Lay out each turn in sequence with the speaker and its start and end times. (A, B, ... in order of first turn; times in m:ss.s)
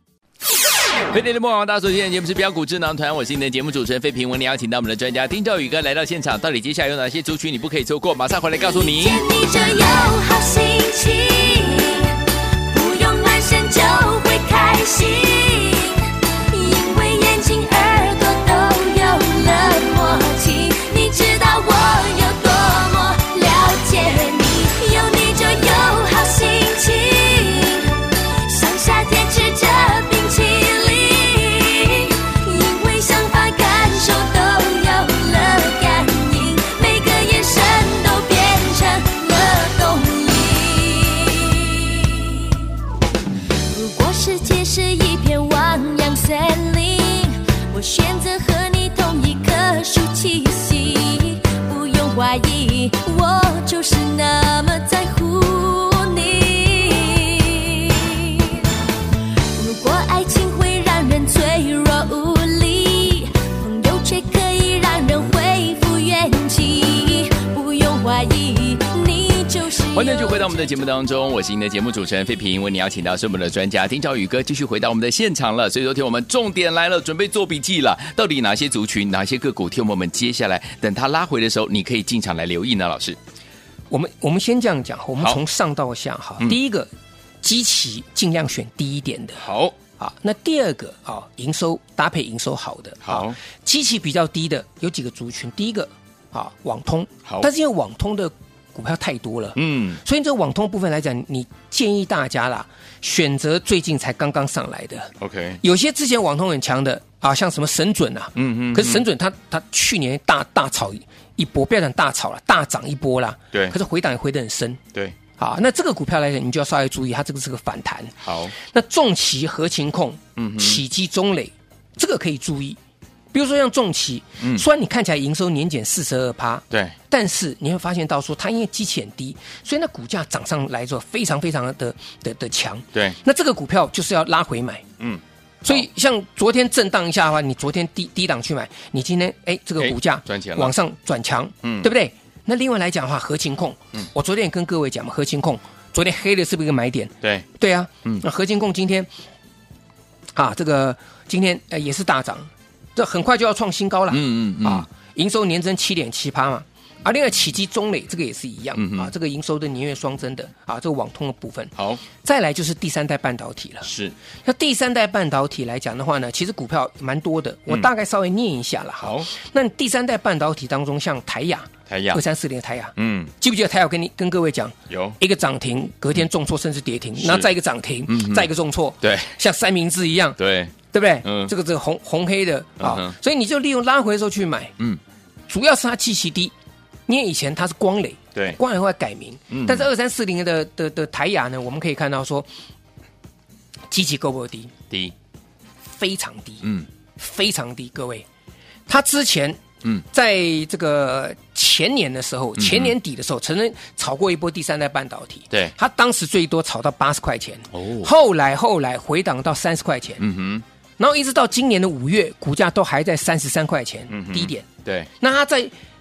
0:01.1-0:09.2 A
0:08.7-0:42.8 B
0:43.7-0:58.8 B
0:59.5-1:10.6 B
1:09.8-1:23.2 A
1:23.9-1:26.9 C
1:27.4-1:29.4 C
1:29.4-1:29.7 A
1:30.0-1:54.8 C
1:33.0-1:33.4 A
1:39.5-1:40.0 A
1:45.2-1:45.6 A
1:48.3-1:49.0 A
1:55.4-2:02.8 C
1:58.2-1:58.5 A
2:00.4-2:00.8 A
2:03.3-2:14.8 C
2:06.7-2:07.0 A
2:15.0-2:15.8 A
2:15.6-2:29.1 C
2:19.8-2:20.7 A
2:21.6-2:21.9 A
2:30.3-2:43.9 C
2:34.1-2:34.8 A
2:38.8-2:39.1 A
2:41.8-2:42.0 A
2:43.8-2:44.1 A
2:44.4-3:00.4 C
2:49.0-2:49.3 A
2:51.9-2:52.2 A
2:53.0-2:53.3 A
2:54.9-2:55.2 A
2:57.2-2:57.5 A
2:58.1-2:58.5 A
2:59.0-2:59.3 A
3:00.4-3:01.5 A
3:00.9-3:04.7 C
3:02.8-3:03.1 A
3:05.5-3:06.5 C
3:07.1-3:12.5 C
3:09.5-3:09.9 A
3:13.9-3:14.7 C
3:15.8-3:16.6 C
3:17.2-3:18.2 C
3:18.9-3:30.2 C
3:22.6-3:22.9 A
3:27.7-3:28.1 A
3:30.2-3:30.6 A
3:31.0-3:34.7 C
3:34.1-3:35.1 A
3:35.2-3:35.7 C